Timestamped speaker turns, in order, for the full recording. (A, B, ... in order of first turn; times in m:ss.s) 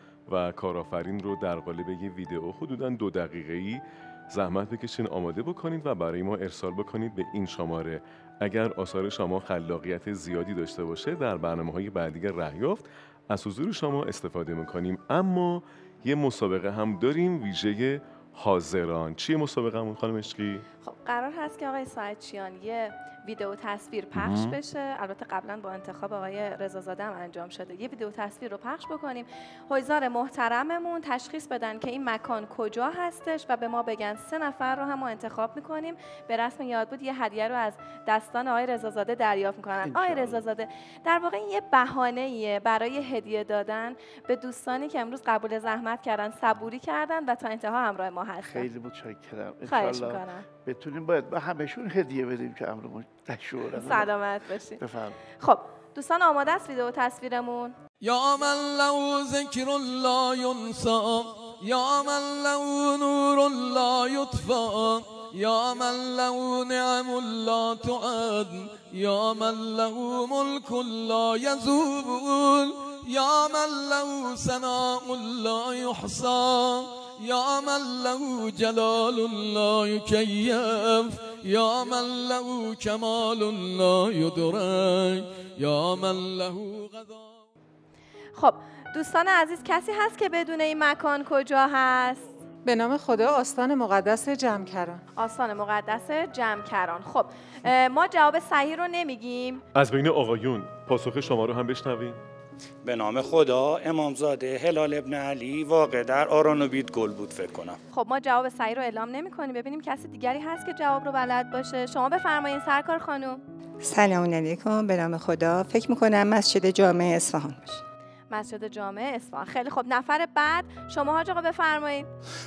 0:00.3-0:20.6 A
0:20.8-0:48.7 B
0:24.1-0:24.6 A
0:39.8-0:40.4 C
0:48.4-0:54.1 C
0:49.6-0:50.4 B
0:53.7-0:54.8 B
0:54.8-0:55.2 C
0:55.4-0:57.8 B
0:58.0-1:27.4 D
1:28.3-1:32.2 B
1:32.6-1:35.0 E
1:35.1-1:39.6 B
1:39.7-1:42.2 A
1:42.8-1:47.8 F
1:47.9-1:53.4 B
1:53.8-1:57.8 G
1:58.3-2:02.1 B